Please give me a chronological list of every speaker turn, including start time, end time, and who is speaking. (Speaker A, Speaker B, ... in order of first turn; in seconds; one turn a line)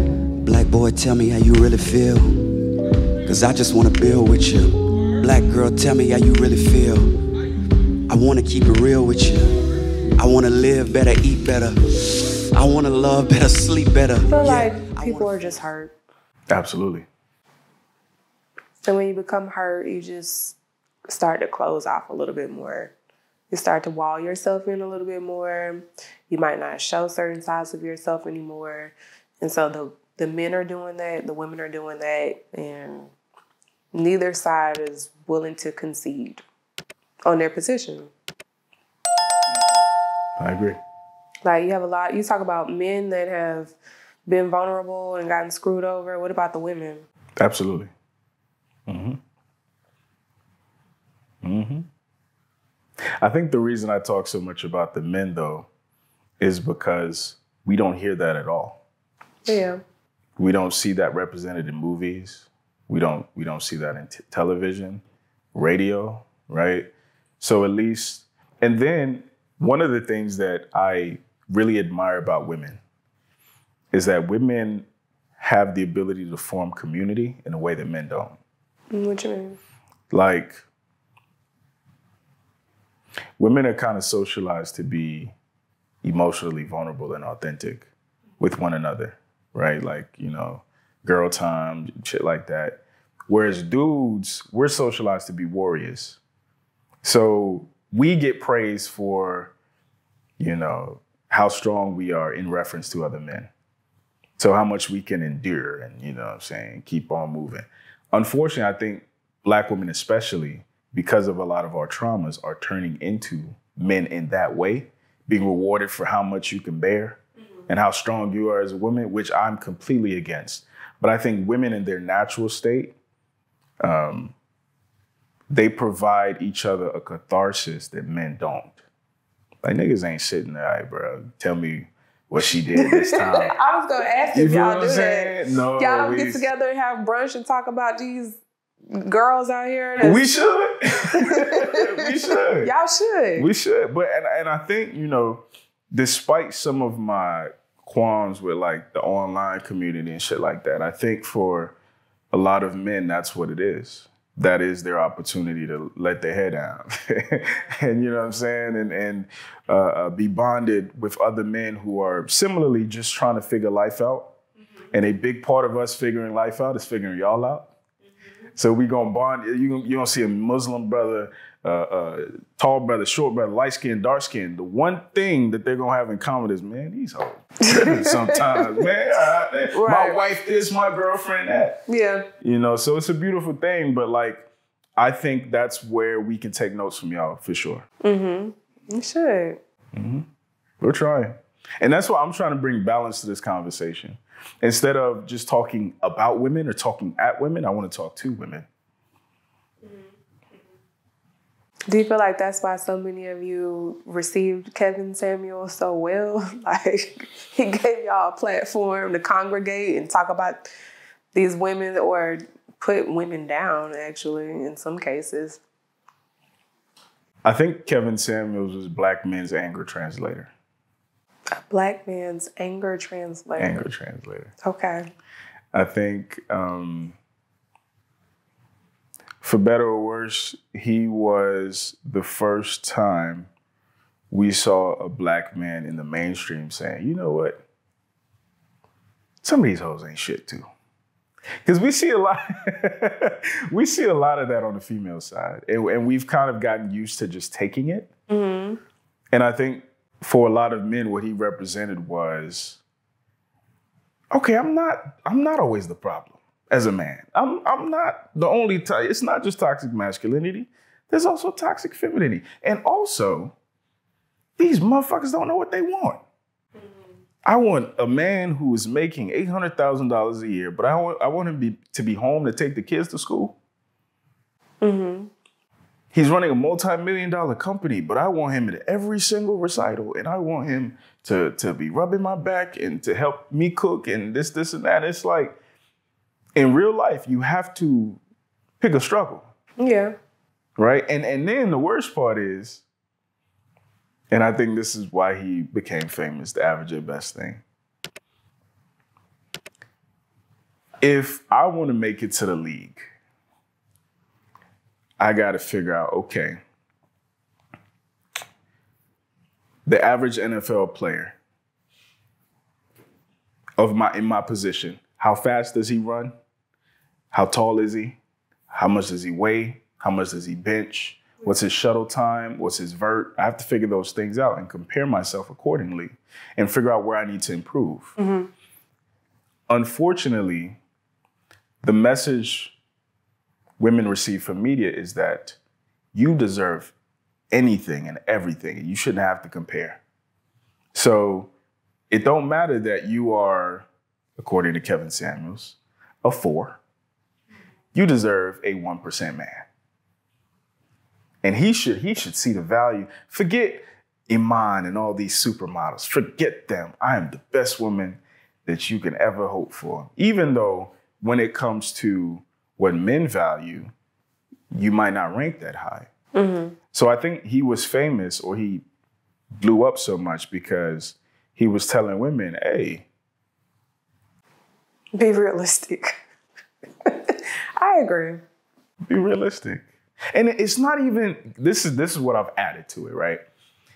Speaker A: 0.4-2.5
Speaker A: 3.2-7.1
Speaker A: 8.1-9.6
Speaker A: 10.2-15.5
Speaker B: 14.3-15.9
Speaker C: 16.5-17.1
Speaker B: 18.8-20.6
Speaker B: 21.1-22.9
Speaker B: 23.5-33.1
Speaker B: 33.9-36.4
Speaker B: 37.3-38.1
Speaker C: 40.4-40.8
Speaker B: 41.4-43.8
Speaker B: 44.3-47.0
Speaker C: 47.4-47.9
Speaker C: 48.9-49.2
Speaker C: 51.4-51.9
Speaker C: 53.2-55.7
Speaker C: 56.4-58.8
Speaker B: 59.5-59.8
Speaker C: 60.4-65.0
Speaker C: 65.5-72.8
Speaker C: 73.9-74.9
Speaker C: 75.4-78.4
Speaker B: 78.9-79.6
Speaker C: 80.1-80.6
Speaker C: 83.4-85.3
Speaker C: 86.0-96.2
Speaker C: 97.0-99.5
Speaker C: 100.4-103.5
Speaker C: 104.4-123.0
Speaker C: 123.8-124.3
Speaker C: 125.5-128.8
Speaker C: 129.6-133.5
Speaker B: 132.8-140.4
Speaker C: 134.3-136.4
Speaker C: 140.0-142.7
Speaker B: 141.1-143.5
Speaker C: 143.4-151.8
Speaker C: 152.3-164.3
Speaker C: 164.9-167.7
Speaker C: 168.6-181.8
Speaker B: 177.8-178.8
Speaker B: 179.7-180.2
Speaker B: 181.9-182.3
Speaker C: 182.4-184.5
Speaker C: 185.0-187.9
Speaker B: 188.0-189.6
Speaker C: 189.9-190.2
Speaker C: 190.8-198.7
Speaker B: 201.9-210.7
Speaker B: 211.3-215.6
Speaker C: 217.4-220.5
Speaker B: 221.7-223.8
Speaker C: 223.6-224.5
Speaker B: 224.6-225.1
Speaker C: 225.7-227.2
Speaker C: 229.4-233.5
Speaker C: 234.3-237.6
Speaker C: 239.4-240.7
Speaker C: 241.6-248.1
Speaker B: 248.3-248.8
Speaker C: 249.3-252.8
Speaker C: 254.3-263.6
Speaker C: 264.6-266.2
Speaker C: 267.4-273.6
Speaker B: 274.8-275.3
Speaker C: 276.1-285.6
Speaker C: 286.6-288.2
Speaker C: 288.8-289.5
Speaker B: 289.8-290.1
Speaker C: 290.8-292.9
Speaker C: 294.3-297.6
Speaker C: 301.0-303.1
Speaker C: 305.2-306.6
Speaker C: 309.9-311.4
Speaker C: 313.8-316.3
Speaker C: 317.3-318.2
Speaker C: 318.7-328.1
Speaker B: 328.2-328.5
Speaker C: 329.7-330.8
Speaker C: 331.8-332.8
Speaker C: 333.8-335.6
Speaker C: 336.1-336.9
Speaker C: 337.5-340.0
Speaker C: 340.9-341.5
Speaker C: 342.1-346.8
Speaker C: 347.9-349.7
Speaker C: 351.4-363.9
Speaker C: 364.7-366.1
Speaker B: 366.4-366.8
Speaker C: 366.9-368.9
Speaker C: 369.6-373.1
Speaker B: 375.1-376.2
Speaker B: 377.1-378.4
Speaker C: 379.1-383.4